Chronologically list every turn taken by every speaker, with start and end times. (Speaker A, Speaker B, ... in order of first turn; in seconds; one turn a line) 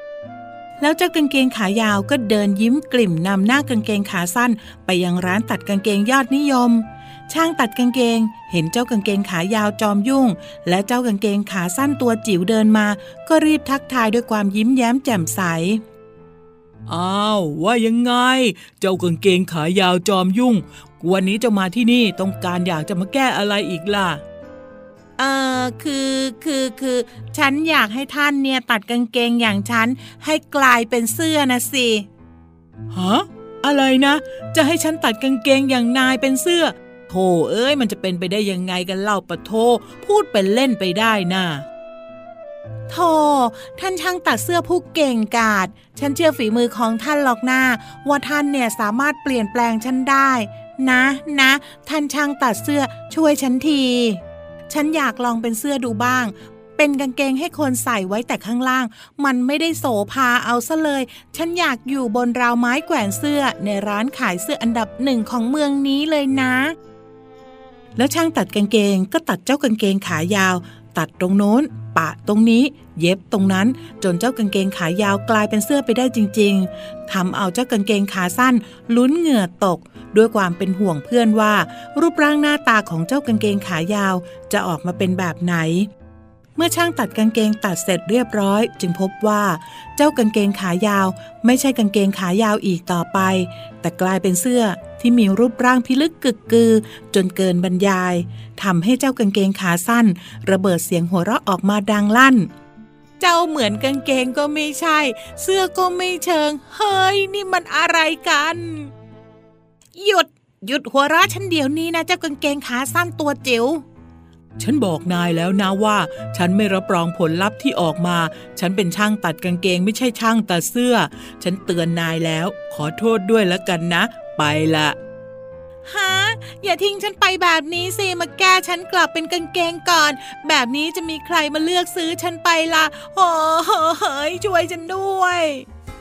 Speaker A: 0.8-15.8
Speaker A: 16.9-24.2
Speaker A: 25.2-32.1
Speaker A: 32.9-41.6
Speaker A: 42.9-66.8
Speaker A: 68.0-85.9
Speaker A: 86.6-102.5
Speaker A: 103.2-108.9
Speaker A: 110.0-113.8
Speaker A: 114.6-125.0
Speaker A: 125.9-135.7